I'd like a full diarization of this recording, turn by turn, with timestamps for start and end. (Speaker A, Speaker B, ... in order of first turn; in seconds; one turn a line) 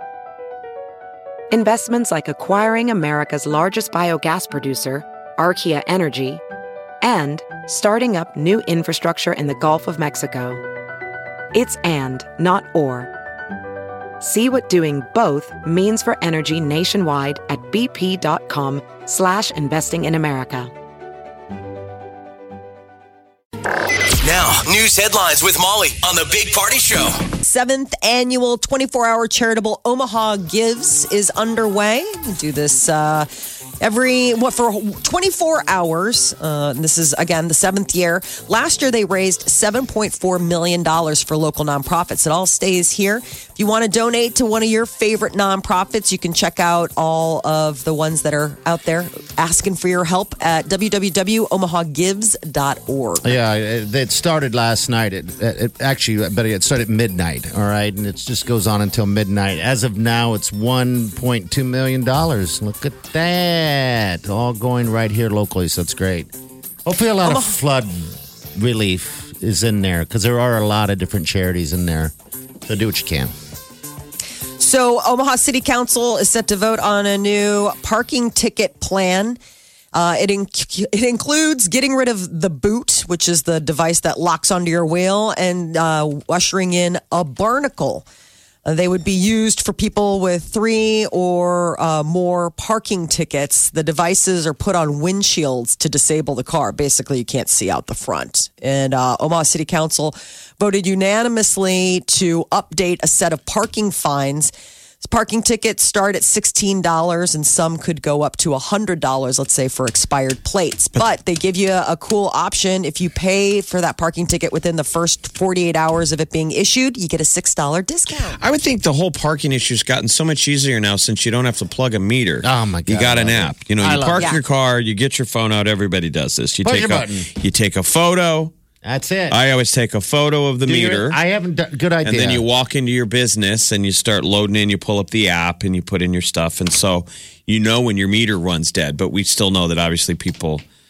Speaker A: 1.5-6.4
Speaker A: 7.0-10.6
Speaker A: 11.5-13.1
Speaker A: 14.2-20.7
Speaker B: 24.2-27.2
Speaker C: 27.4-33.3
Speaker C: 33.8-53.4
Speaker D: 53.2-66.3
Speaker D: 66.8-72.1
Speaker C: 67.2-67.5
Speaker D: 72.7-73.3
Speaker C: 74.6-79.4
Speaker C: 79.9-88.0
Speaker C: 88.6-118.4
Speaker E: 118.4-128.5
Speaker D: 122.4-124.2
Speaker D: 126.6-127.3
Speaker D: 128.8-129.4
Speaker E: 129.3-131.2
Speaker D: 130.6-132.4
Speaker E: 132.0-140.6